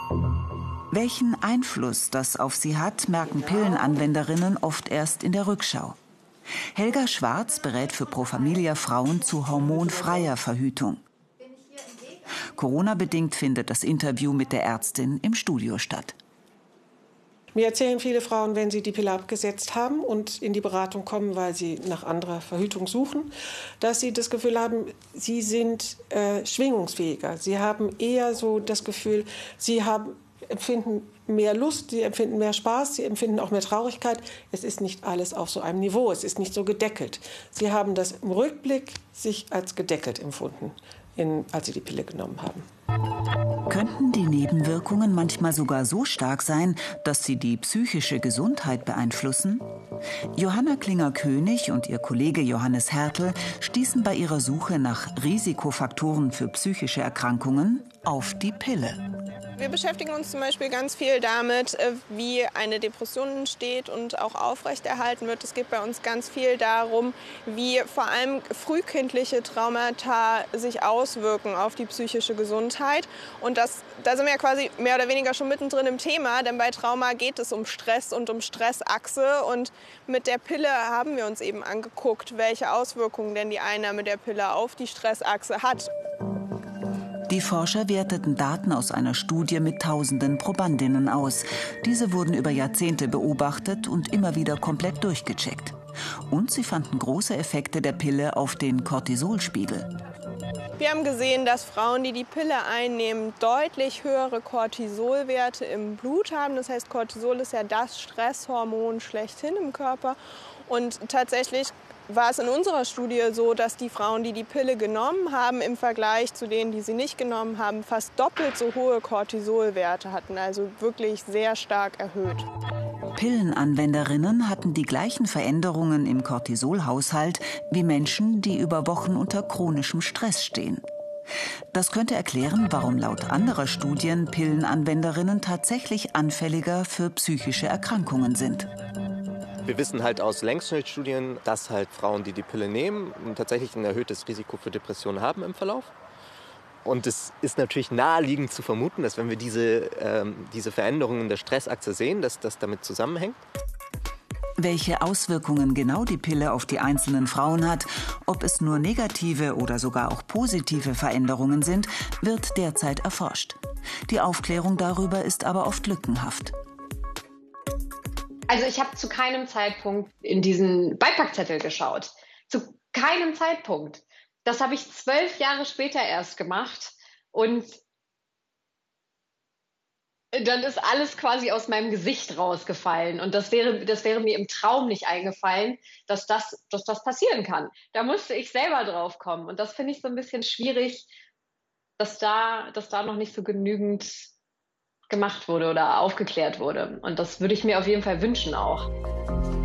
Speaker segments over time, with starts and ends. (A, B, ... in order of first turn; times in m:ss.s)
0:00.9-0:06.0 A
0:06.7-0:11.0 A
0:12.3-0:16.2 A
0:17.5-0:42.6 B
0:43.7-0:49.7 A
0:50.3-0:59.0 A
0:59.6-1:25.9 C
1:27.3-1:35.8 A
1:36.3-1:39.9 A
1:40.8-2:02.4 C
2:03.1-2:10.8 A
2:11.7-2:18.7 A
2:19.6-2:25.9 D
2:26.8-2:33.4 D
2:34.6-2:46.5 A
2:48.5-2:57.8 E
3:00.3-3:11.1 E
3:12.0-3:14.3 E
3:15.1-3:18.9 E